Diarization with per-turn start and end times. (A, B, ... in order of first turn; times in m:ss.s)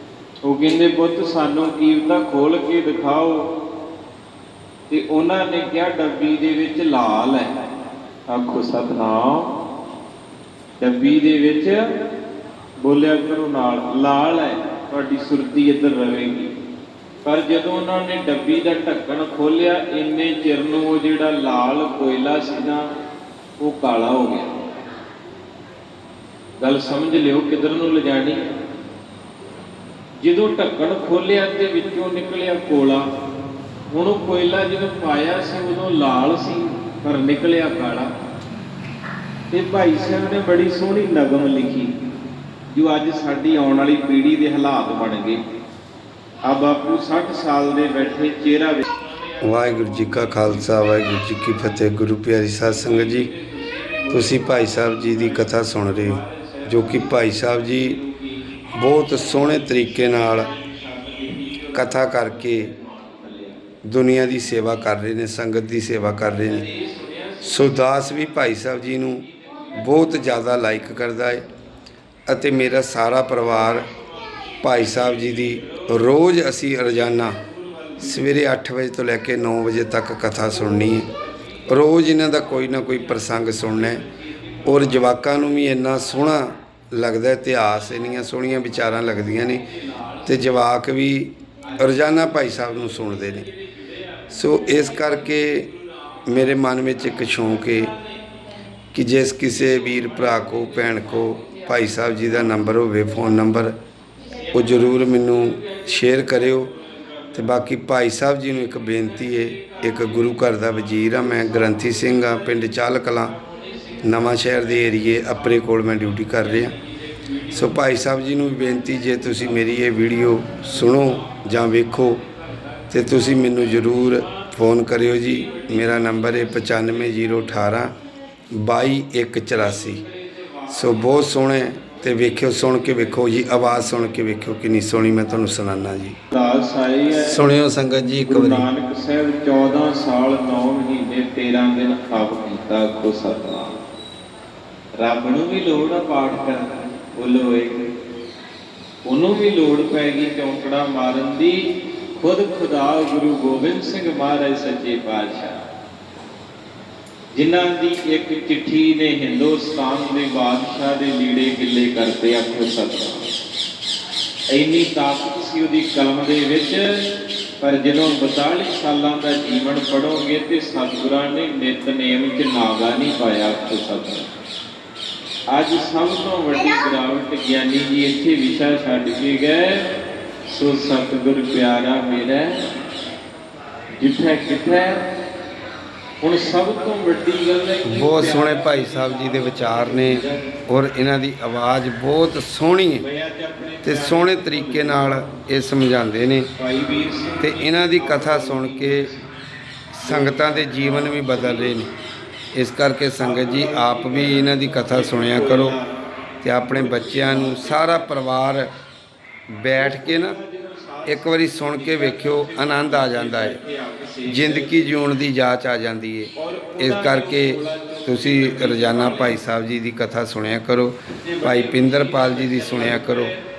0:00.4-0:03.5 A
0:04.9-0:07.6 A
0:08.3-0:09.5 A
0:10.8-0:11.8 A
0:12.8-0:16.5 A
0:17.2-0:22.8 A
0:23.6-0:24.6 A
0:26.6-0:28.4 A
0:30.2-0:33.1 A
0:33.9-0:38.1 A
0:39.5-0:41.9 A
0:42.7-0:45.4 A
0:46.4-0:51.1 A
0:49.4-0:53.3 B
0:52.6-1:03.6 A
0:54.1-0:58.0 B
0:58.7-1:00.5 B
1:01.7-1:02.7 B
1:03.9-1:06.6 B
1:06.3-1:11.3 A
1:07.4-1:11.4 B
1:12.3-1:13.9 B
1:13.4-1:18.4 A
1:14.6-1:17.4 B
1:18.0-1:21.1 B
1:20.4-1:25.3 A
1:21.7-1:24.1 B
1:24.6-1:29.6 B
1:29.0-1:30.6 A
1:30.2-1:33.5 B
1:31.6-1:35.4 A
1:34.3-1:35.7 B
1:36.2-1:37.9 B
1:37.1-1:38.0 A
1:38.9-1:43.8 B
1:39.5-1:42.8 A
1:44.3-1:47.8 A
1:44.5-1:46.7 B
1:47.3-1:53.3 B
1:48.6-2:07.8 A
1:54.0-1:56.8 B
1:57.5-2:02.2 B
2:02.9-2:07.9 B
2:08.5-2:10.0 B
2:09.5-2:14.3 A
2:10.7-2:16.2 B
2:16.3-2:17.4 A
2:17.1-2:18.7 B
2:18.2-2:23.7 A
2:25.0-2:27.8 A
2:29.0-2:35.6 A
2:37.3-2:43.3 A
2:44.5-2:47.0 A
2:47.6-2:54.3 A
2:55.5-2:59.8 A
3:00.5-3:02.7 A
3:04.0-3:05.0 A
3:06.2-3:10.5 A
3:07.8-3:13.0 B
3:13.0-3:15.2 A
3:13.8-3:16.5 B
3:16.6-3:19.3 A
3:17.4-3:19.1 B
3:19.9-3:21.9 B
3:20.0-3:21.8 A
3:22.5-3:25.8 B
3:23.2-3:26.0 A
3:26.4-3:28.7 B
3:26.6-3:28.2 A
3:29.5-3:30.4 B
3:29.7-3:35.0 A
3:31.0-3:33.6 B
3:34.3-3:43.3 B
3:36.3-3:39.4 A
3:41.2-3:43.4 A